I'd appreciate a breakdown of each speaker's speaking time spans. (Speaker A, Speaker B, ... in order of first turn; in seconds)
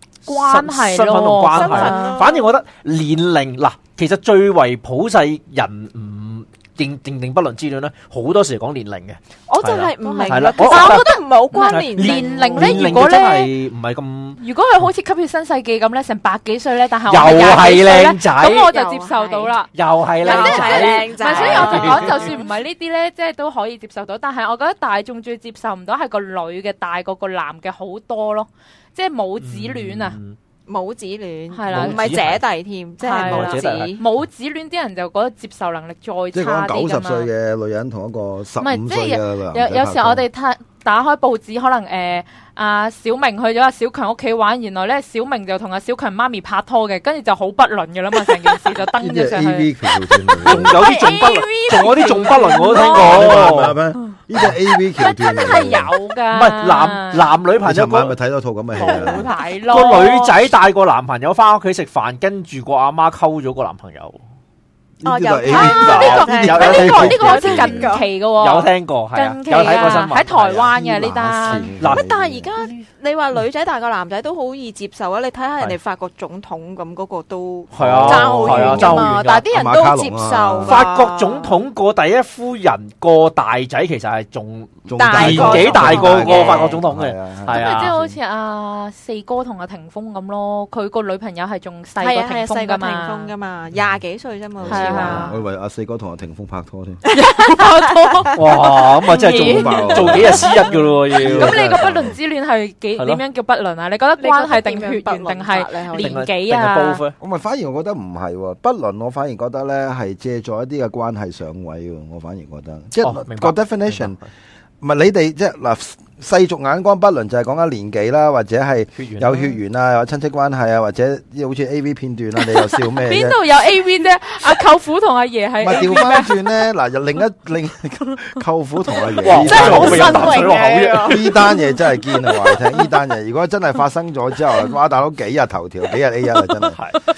Speaker A: 0.2-2.1, 10.0-13.5, 14.4-19.7, 20.2-30.2, 31.5-32.1, 33.0-37.3, 38.6-49.7, 51.9-52.9, 54.9-57.3, 58.8-60.3, 65.5-71.7, 87.5-93.3, 94.7-95.4, 97.1-98.3, 99.1-100.6, 101.2-107.0, 122.7-126.4, 129.7-129.9
Speaker B: 0.3-14.4, 17.1-18.6, 19.7-22.4, 29.4-30.4, 31.7-32.4, 33.1-34.0, 50.4-53.8, 56.3-58.1, 59.7-64.2, 65.8-67.4, 68.4-70.7, 71.8-72.8, 77.7-79.4, 80.6-88.1, 98.3-101.9, 105.9-107.2, 113.0-114.2, 119.0-119.5, 129.2-131.3, 136.7-137.0
Speaker C: 1.5-2.5, 9.5-13.0, 18.4-19.5, 20.2-22.4, 30.7-34.0, 50.5-53.3, 58.8-59.3, 65.0-68.1, 71.9-81.6, 85.0-86.8, 92.0-95.3, 97.1-100.5, 104.2-106.2, 129.3-131.4
Speaker D: 36.3-40.2, 49.0-50.8, 52.9-55.9, 57.6-59.2, 65.0-68.0, 70.7-72.5, 77.8-80.7, 84.8-87.7, 94.6-97.0, 99.3-100.6, 101.1-102.2, 107.2-114.2, 114.8-123.4, 125.6-130.5, 131.0-136.8